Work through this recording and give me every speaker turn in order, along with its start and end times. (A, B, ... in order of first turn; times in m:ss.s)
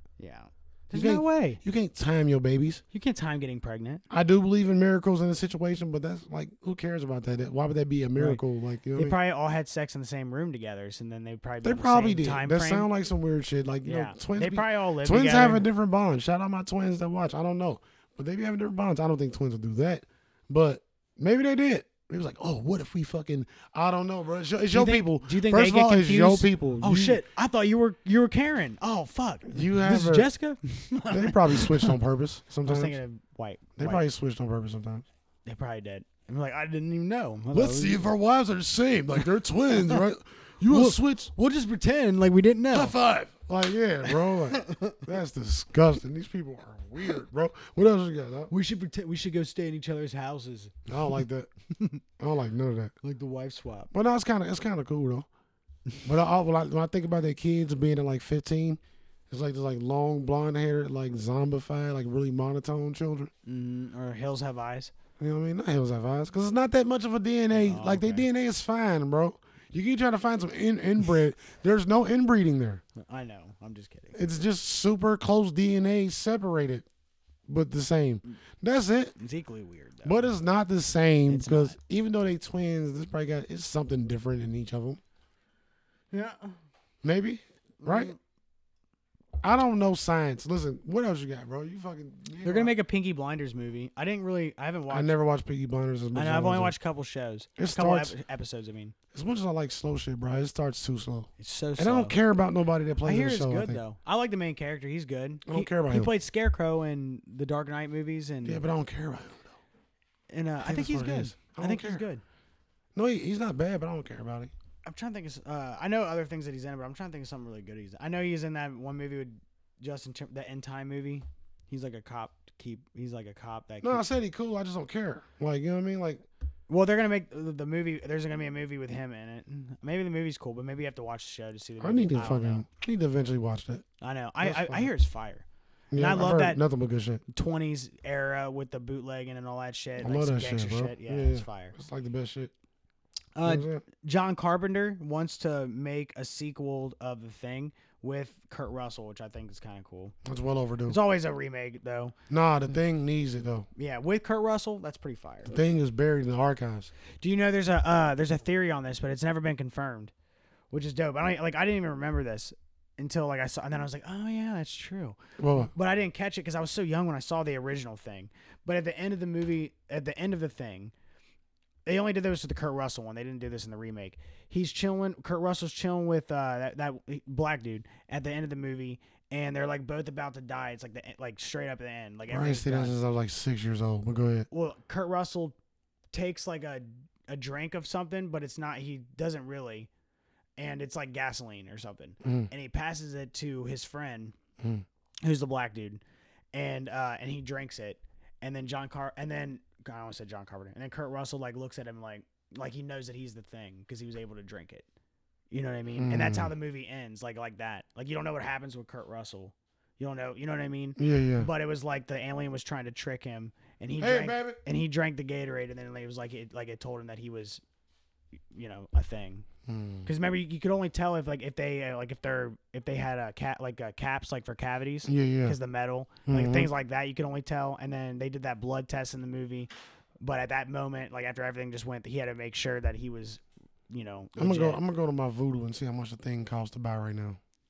0:00.2-0:01.6 A
0:00.9-0:02.8 B
0:02.9-0:04.0 A
0:04.1-0:09.2 B
0:08.9-0:12.9 A
0:11.6-0:27.2 B
0:13.8-0:15.7 A
0:24.7-0:31.9 A
0:29.5-0:30.3 B
0:31.1-0:33.0 B
0:32.6-0:34.0 A
0:33.8-0:35.0 B
0:35.5-0:38.1 A
0:37.5-0:41.3 B
0:40.7-0:43.0 A
0:42.7-0:48.5 B
0:44.0-0:45.0 A
0:48.5-0:51.2 A
0:50.9-0:51.5 B
0:52.2-0:52.9 B
0:53.0-0:53.9 A
0:53.9-0:55.3 B
0:56.0-1:03.3 B
1:03.5-1:04.9 A
1:05.2-1:12.8 B
1:07.5-1:08.2 A
1:13.0-1:14.2 A
1:14.1-1:16.9 B
1:17.5-1:19.1 B
1:19.2-1:20.3 A
1:20.0-1:25.0 B
1:21.3-1:21.8 A
1:26.1-1:26.6 A
1:27.0-1:28.1 B
1:27.8-1:28.2 A
1:29.4-1:32.7 B
1:32.4-1:35.1 A
1:34.9-1:36.7 B
1:36.1-1:38.9 A
1:37.6-1:38.1 B
1:39.1-1:43.8 B
1:41.4-1:42.2 A
1:43.0-1:48.6 A
1:45.5-1:46.1 B
1:48.4-1:49.6 B
1:50.3-1:52.2 A
1:50.6-1:52.0 B
1:52.9-1:54.5 B
1:54.8-2:04.0 A
2:03.8-2:06.2 B
2:06.7-2:12.6 A
2:11.8-2:13.8 B
2:14.0-2:16.6 A
2:14.4-2:14.9 B
2:15.9-2:17.2 B
2:17.3-2:21.8 A
2:20.0-2:22.5 B
2:23.4-2:30.1 A
2:23.4-2:23.8 B
2:30.2-2:31.0 B
2:30.9-2:32.2 A
2:32.3-2:33.7 B
2:33.8-2:35.5 A
2:35.4-2:36.9 B
2:37.2-2:40.1 A
2:40.7-2:50.9 A
2:45.4-2:45.7 B
2:51.9-3:03.0 A
3:02.3-3:04.5 B
3:04.5-3:05.6 A
3:06.1-3:09.9 A
3:10.6-3:14.4 A
3:12.2-3:12.5 B
3:14.6-3:14.8 B
3:15.2-3:16.0 A
3:16.5-3:24.9 A
3:25.5-3:37.6 A
3:26.0-3:26.5 B
3:31.0-3:31.5 B
3:34.0-3:34.6 B
3:38.5-3:39.5 A
3:39.6-3:40.1 B
3:40.1-3:49.7 A
3:45.1-3:45.6 B
3:46.3-3:46.7 B
3:50.2-3:54.8 A
3:54.4-3:57.4 B